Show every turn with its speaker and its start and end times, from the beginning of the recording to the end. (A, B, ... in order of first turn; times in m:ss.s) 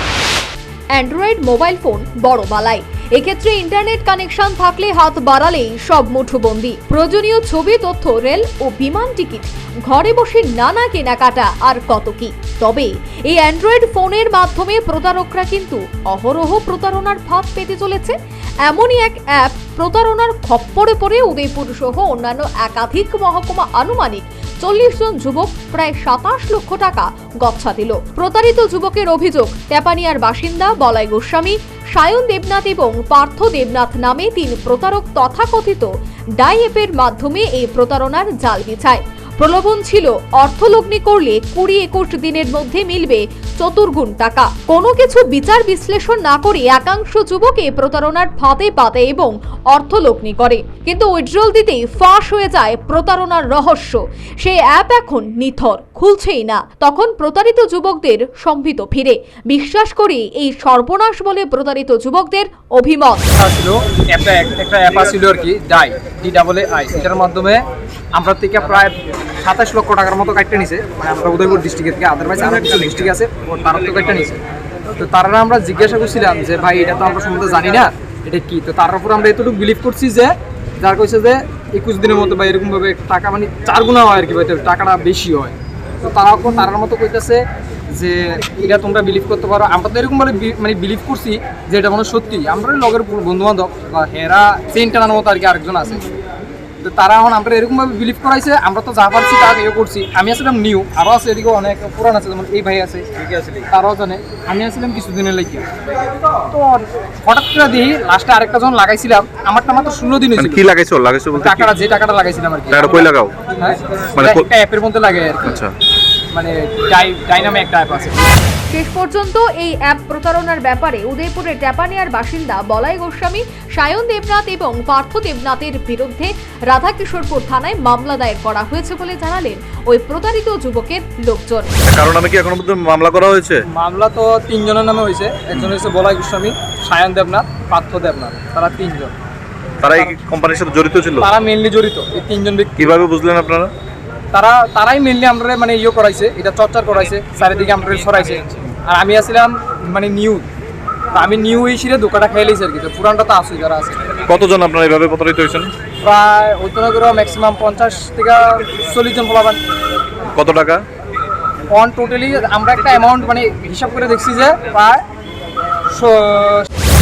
0:00.9-0:18.1 A
0:18.6-1:03.3 A
1:03.4-1:07.6 B
1:08.1-1:14.4 B
1:15.0-1:36.0 B
1:36.8-1:45.6 B
1:46.5-1:50.7 B
1:50.4-1:51.7 C
1:51.4-1:55.6 B
1:52.7-1:53.3 C
1:54.2-1:54.5 C
1:55.4-1:55.7 C
1:56.3-1:58.3 B
1:58.7-2:11.8 A
2:11.9-2:13.6 C
2:13.7-2:19.1 B
2:19.8-2:21.3 C
2:21.2-2:22.9 B
2:22.8-2:23.7 C
2:24.3-2:30.4 B
2:31.1-2:34.0 B
2:34.3-2:35.7 C
2:36.0-2:39.6 B
2:40.3-2:40.8 C
2:41.7-2:45.0 B
2:45.9-2:46.7 B